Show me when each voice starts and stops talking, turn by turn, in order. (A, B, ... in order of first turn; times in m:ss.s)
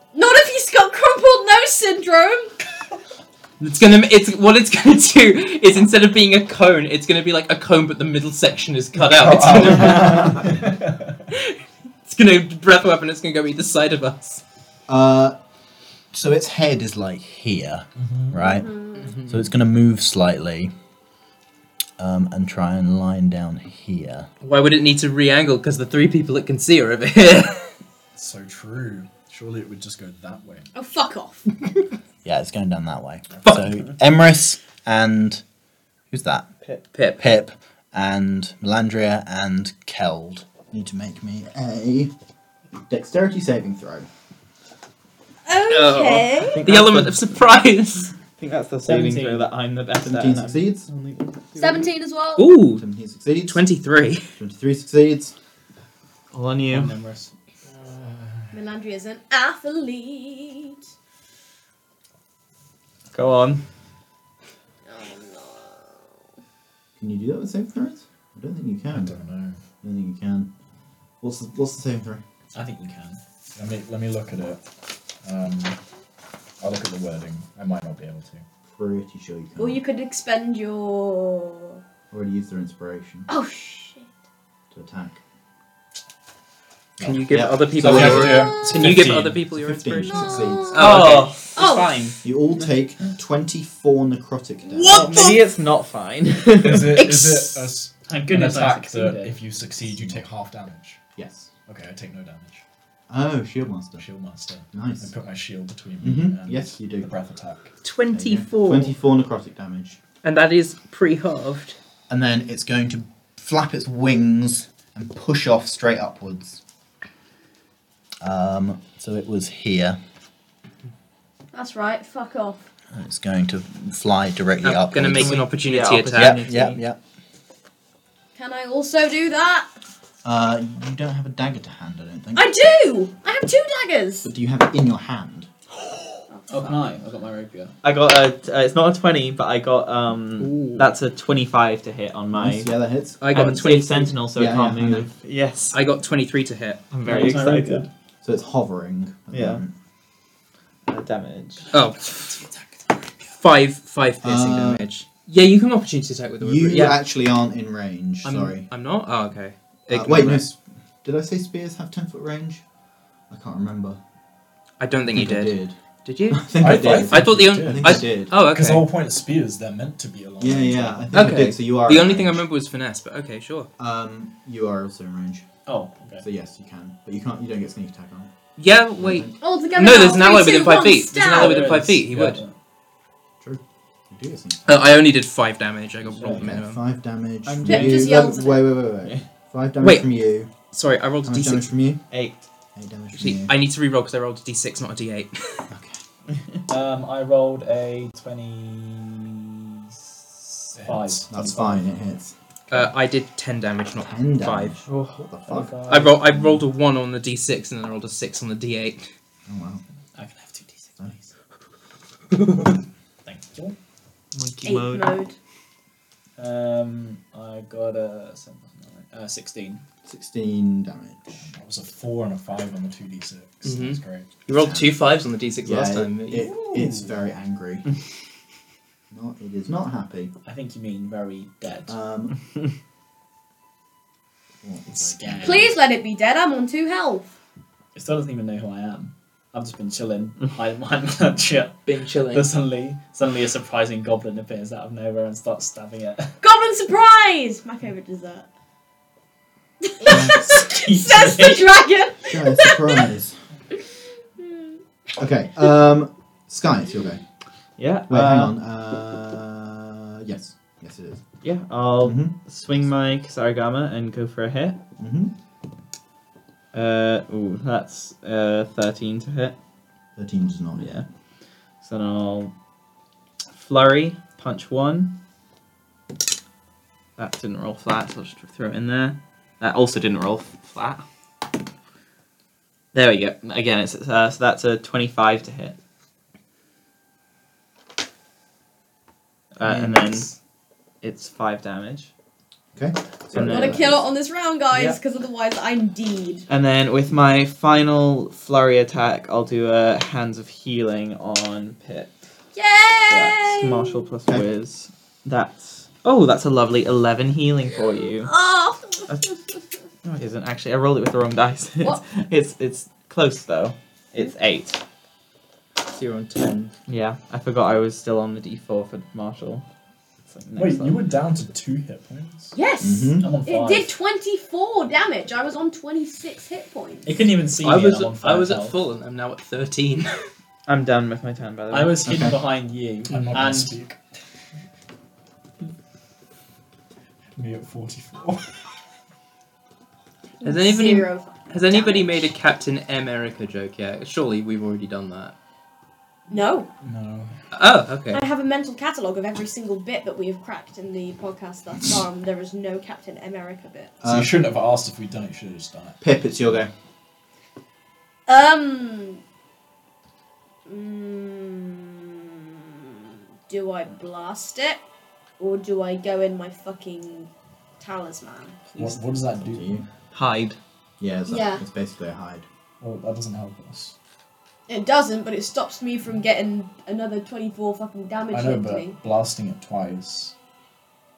0:00.1-0:02.5 A
0:03.6-0:10.3 B
0:09.0-0:11.1 C
0:09.7-0:10.4 D
0:11.3-0:14.4 B
0:14.9-0:15.4 D
0:16.1-0:18.7 D
0:18.0-0:18.4 C
0:18.4-0:19.1 A
0:19.0-0:19.4 B
0:19.3-0:20.7 D
0:22.0-0:24.3 D
0:24.4-0:27.7 B
0:28.1-0:30.7 C
0:30.7-0:31.5 A
0:32.2-0:35.4 D
0:36.1-0:36.5 D
0:36.9-0:37.2 B
0:37.2-0:42.1 D
0:42.9-0:44.1 D
0:45.4-0:46.6 A
0:45.7-0:48.1 B
0:46.4-0:47.4 E
0:48.4-0:51.8 E
0:48.8-0:49.5 F
0:50.0-0:50.9 D
0:51.6-0:52.5 A
0:52.4-0:52.8 B
0:52.6-0:53.6 D
0:53.5-0:54.3 B
0:54.4-0:55.3 D
0:56.3-0:57.0 E
0:56.7-0:57.3 F
0:57.9-0:58.2 C
0:58.5-1:00.8 A
1:03.1-1:03.6 E
1:04.8-1:06.1 A
1:07.0-1:09.1 D
1:08.9-1:09.6 C
1:09.8-1:10.5 D
1:11.2-1:12.2 D
1:12.5-1:13.2 F
1:13.6-1:14.6 C
1:15.2-1:15.8 C
1:16.6-1:18.4 C
1:18.7-1:19.8 D
1:19.6-1:21.8 A
1:22.1-1:23.3 D
1:23.3-1:24.1 A
1:24.7-1:25.2 D
1:27.0-1:30.9 D
1:27.0-1:31.4 B
1:27.8-1:29.4 C
1:28.3-1:28.8 A
1:30.0-1:31.0 A
1:30.8-1:32.2 E
1:31.5-1:32.0 A
1:32.2-1:35.2 D
1:34.8-1:35.4 A
1:34.9-1:37.1 E
1:36.6-1:41.0 C
1:37.0-1:37.6 B
1:38.0-1:39.4 F
1:40.0-1:40.2 D
1:41.2-1:41.5 D
1:41.7-1:42.6 C
1:43.1-1:44.0 D
1:44.0-1:47.7 C
1:44.7-1:45.1 D
1:46.0-1:47.1 D
1:47.8-1:48.9 B
1:48.1-1:50.0 D
1:50.2-1:51.8 B
1:52.1-1:56.6 D
1:58.2-2:00.0 D
2:01.5-2:02.6 A
2:02.9-2:05.5 D
2:04.6-2:06.4 B
2:05.2-2:06.8 E
2:06.1-2:07.0 D
2:08.4-2:09.7 A
2:10.2-2:12.5 D
2:12.3-2:14.3 A
2:14.2-2:15.5 D
2:16.3-2:16.7 A
2:16.5-2:17.7 F
2:17.8-2:22.7 E
2:20.4-2:20.9 B
2:22.3-2:23.2 D
2:23.2-2:24.2 B
2:23.3-2:25.8 E
2:24.3-2:25.1 D
2:25.7-2:26.8 B
2:26.9-2:27.8 E
2:27.0-2:27.9 F
2:28.2-2:29.7 D
2:29.3-2:29.6 E
2:30.9-2:31.7 E
2:31.7-2:32.3 B
2:32.4-2:32.6 F
2:33.3-2:37.0 B
2:34.2-2:34.8 D
2:36.4-2:38.7 D
2:38.2-2:40.5 B
2:39.9-2:42.6 D
2:43.3-2:44.0 D
2:44.8-2:48.9 B
2:45.1-2:45.8 D
2:46.3-2:48.3 D
2:46.6-2:51.4 C
2:50.4-2:52.4 D
2:51.1-2:53.7 B
2:53.8-2:55.5 D
2:55.6-2:56.2 F
2:56.2-2:58.3 D
2:58.6-3:02.4 B
2:59.0-2:59.4 D
2:59.4-3:01.7 A
3:01.2-3:02.5 F
3:03.4-3:04.7 D
3:04.6-3:06.8 B
3:06.1-3:06.5 F
3:06.4-3:10.5 D
3:07.5-3:08.2 E
3:07.6-3:08.7 A
3:09.8-3:10.1 B
3:10.7-3:11.7 B
3:11.2-3:12.0 D
3:12.1-3:12.4 E
3:12.8-3:13.5 D
3:13.1-3:15.7 B
3:15.7-3:16.0 D
3:16.7-3:21.8 F
3:20.7-3:21.3 C
3:21.3-3:22.3 D
3:22.7-3:24.8 B
3:24.0-3:26.6 D
3:24.9-3:25.2 E
3:25.4-3:26.2 F
3:25.9-3:29.1 B
3:29.5-3:29.8 D
3:30.1-3:31.0 F
3:33.2-3:33.8 F
3:34.3-3:35.2 E
3:34.6-3:35.4 A
3:36.4-3:39.8 F
3:40.0-3:41.2 D
3:41.4-3:44.3 C
3:43.6-3:46.5 B
3:44.6-3:44.9 D
3:45.6-3:47.9 D
3:49.1-3:50.3 D
3:50.4-3:51.9 F
3:51.9-3:52.4 D
3:54.6-3:55.7 D
3:54.9-3:55.8 F
3:55.4-3:57.3 A
3:57.9-4:06.3 F
4:01.9-4:02.5 B
4:06.4-4:08.5 A
4:09.8-4:13.1 A
4:10.0-4:10.6 D
4:10.0-4:11.7 F
4:12.3-4:13.4 D
4:14.4-4:14.8 A
4:15.2-4:17.2 D
4:17.8-4:18.6 E
4:18.1-4:21.2 D
4:21.4-4:24.8 E
4:22.0-4:22.4 D
4:25.0-4:25.3 D
4:26.7-4:29.6 E
4:30.2-4:30.9 D
4:30.8-4:31.0 E
4:31.8-4:32.5 E
4:33.5-4:35.1 E
4:37.2-4:41.0 E
4:42.9-4:45.8 E
4:49.5-4:50.3 E
4:49.6-4:50.2 D
4:51.0-4:52.1 E
4:52.7-4:54.0 D
4:53.3-4:53.9 E
4:53.4-4:56.4 A
4:56.5-5:02.2 E
5:02.5-5:04.1 A
5:03.1-5:08.3 E
5:08.2-5:09.3 A
5:10.0-5:14.8 E
5:15.8-5:16.7 B
5:16.9-5:19.6 E
5:20.3-5:21.1 E
5:20.5-5:22.5 C
5:22.5-5:27.2 A
5:22.8-5:23.3 D
5:23.2-5:24.0 F
5:27.0-5:28.8 F
5:27.6-5:30.3 B
5:30.7-5:32.1 E
5:31.7-5:33.7 F
5:32.0-5:32.4 D
5:33.1-5:34.0 C
5:37.4-5:38.7 C
5:40.4-5:42.2 A
5:40.4-5:45.3 B
5:46.3-5:46.7 A
5:46.8-5:47.3 C
5:47.5-5:48.2 B
5:48.1-5:53.9 A
5:54.0-5:54.3 D
5:54.0-5:56.0 C
5:56.0-5:56.7 D
5:58.3-5:59.2 A
6:00.7-6:02.2 A
6:03.5-6:04.8 A
6:05.4-6:07.3 A
6:07.8-6:08.6 A
6:08.8-6:09.8 C
6:09.4-6:09.8 D
6:10.1-6:10.6 E
6:11.0-6:12.4 D
6:11.3-6:11.6 A
6:12.8-6:13.9 C
6:14.7-6:19.0 A
6:18.3-6:20.3 C